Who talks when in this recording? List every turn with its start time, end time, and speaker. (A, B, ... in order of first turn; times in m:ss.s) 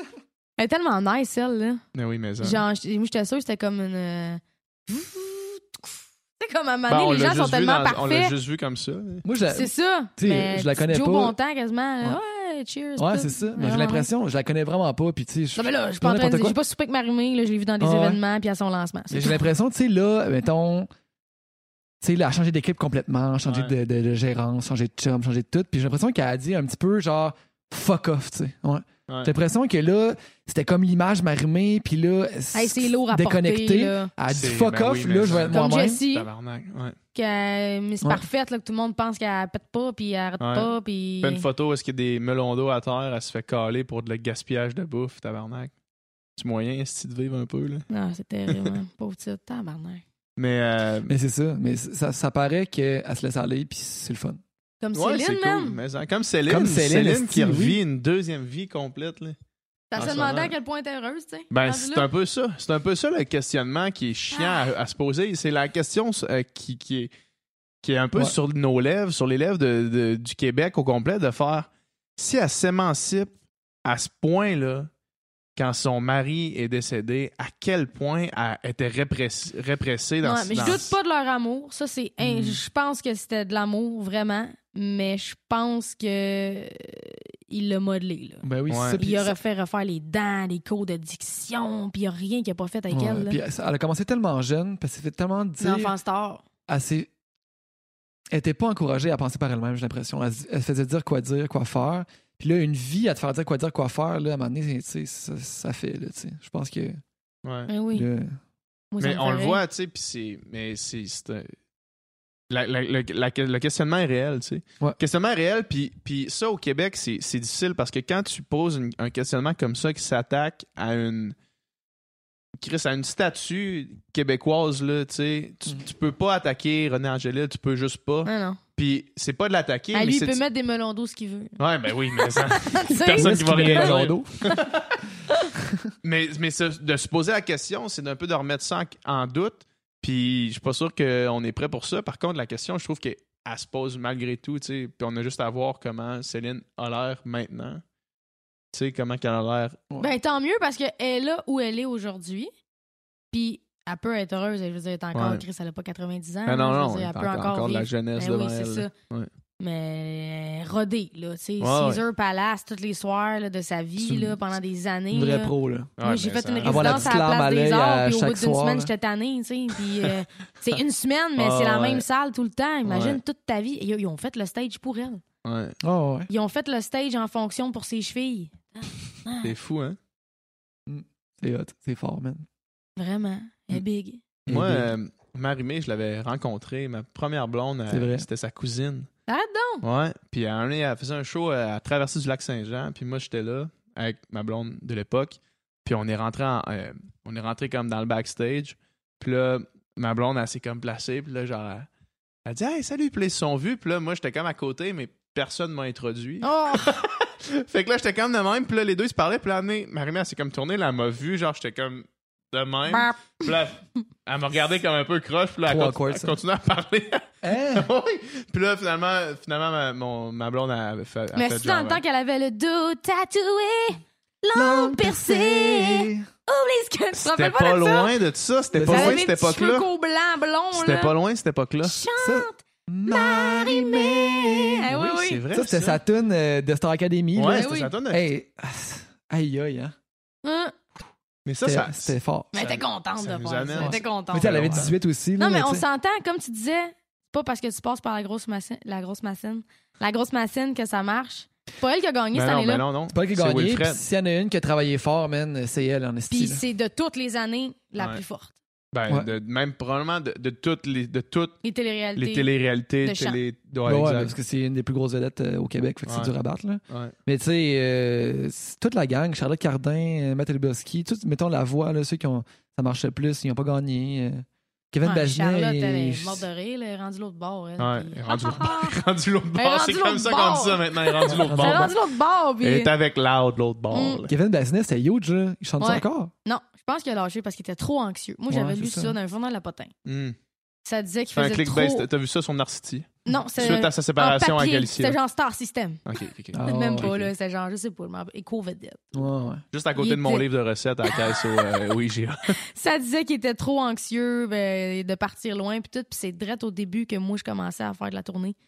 0:00.6-0:01.8 A
0:01.9-0:02.6 B
0:02.4-0:08.4 A
0:06.9-0:09.2 B
0:09.2-0:11.4 C
0:09.5-0:14.1 A
0:13.0-0:16.6 C
0:15.6-0:19.4 A
0:17.8-0:18.2 C
0:19.1-0:20.9 C
0:22.0-0:36.0 C
0:23.5-0:23.7 B
0:32.5-0:34.1 A
0:34.3-0:37.0 B
0:35.5-0:36.3 A
0:37.1-0:41.5 A
0:40.4-0:45.7 B
0:46.4-0:47.9 B
0:47.9-0:50.0 A
0:50.4-0:51.1 B
0:51.1-0:54.4 C
0:54.8-0:55.8 A
0:54.9-0:59.4 B
0:56.5-0:57.8 C
0:59.9-1:02.1 A
1:00.0-1:00.5 B
1:01.5-1:07.1 B
1:04.3-1:04.7 A
1:07.8-1:13.3 B
1:13.8-1:14.9 B
1:15.6-1:21.0 B
1:20.2-1:28.5 A
1:20.6-1:20.8 C
1:22.2-1:22.6 C
1:28.4-1:29.4 C
1:28.7-1:29.0 B
1:29.0-1:33.4 A
1:32.9-1:35.9 C
1:35.6-1:36.4 A
1:36.7-1:37.1 C
1:38.3-1:47.0 C
1:47.4-1:47.7 B
1:47.7-1:48.1 A
1:47.9-1:48.4 C
1:48.9-1:49.6 A
1:49.0-1:51.5 B
1:52.5-2:01.4 B
2:02.6-2:10.4 B
2:08.3-2:08.6 A
2:09.9-2:11.6 A
2:11.6-2:14.9 B
2:12.2-2:14.0 A
2:13.2-2:14.5 C
2:15.6-2:15.9 C
2:16.0-2:27.8 B
2:28.7-2:29.8 B
2:30.0-2:32.5 A
2:33.3-2:38.9 A
2:35.1-2:35.4 B
2:36.5-2:39.3 B
2:39.6-2:55.2 A
2:41.6-2:42.0 B
2:44.0-2:44.4 C
2:45.1-2:45.9 C
2:46.0-2:47.1 B
2:46.6-2:48.9 C
2:51.4-2:52.0 B
2:52.9-2:53.2 B
2:55.4-2:55.8 B
2:55.8-2:56.3 C
2:56.3-2:59.5 A
2:59.4-3:00.0 B
3:00.9-3:02.5 C
3:03.0-3:04.2 A
3:04.5-3:04.9 C
3:04.5-3:09.1 B
3:07.9-3:08.3 C
3:09.3-3:09.8 A
3:09.8-3:21.9 B
3:22.5-3:42.0 B
3:26.4-3:27.0 A
3:32.9-3:33.5 A
3:35.6-3:36.4 C
3:37.4-3:37.9 C
3:41.4-3:48.2 A
3:44.6-3:46.3 C
3:47.2-3:49.9 B
3:48.7-3:49.2 C
3:48.8-3:51.2 A
3:50.7-3:52.0 B
3:51.8-3:55.4 A
3:52.2-3:54.9 C
3:54.9-3:56.0 B
3:55.5-4:00.0 C
3:57.4-3:58.2 B
3:57.5-3:58.0 A
4:00.4-4:00.8 A
4:01.5-4:05.0 B
4:01.6-4:02.5 C
4:02.5-4:04.9 A
4:03.8-4:05.8 C
4:05.4-4:12.8 A
4:12.3-4:14.0 B
4:13.1-4:16.6 C
4:16.3-4:18.6 A
4:18.9-4:21.6 B
4:21.6-4:22.5 A
4:22.2-4:24.3 B
4:23.0-4:23.4 A
4:23.8-4:36.4 C
4:26.1-4:26.3 B
4:26.9-4:27.2 B
4:35.0-4:39.0 A
4:37.8-4:42.0 B
4:39.6-4:42.9 A
4:41.3-4:41.9 C
4:42.6-4:44.3 B
4:43.9-4:44.2 A
4:44.3-4:46.3 C
4:45.8-4:49.9 A
4:48.5-4:49.2 C
4:50.1-4:50.4 B
4:50.8-4:52.1 A
4:51.4-4:55.2 B
4:53.3-4:56.0 A
4:56.1-4:57.3 B
4:56.5-4:57.1 C
4:56.6-4:59.2 A
4:59.1-4:59.6 C
4:59.7-5:02.6 B
5:00.0-5:00.5 A
5:01.1-5:01.4 A
5:02.7-5:08.6 A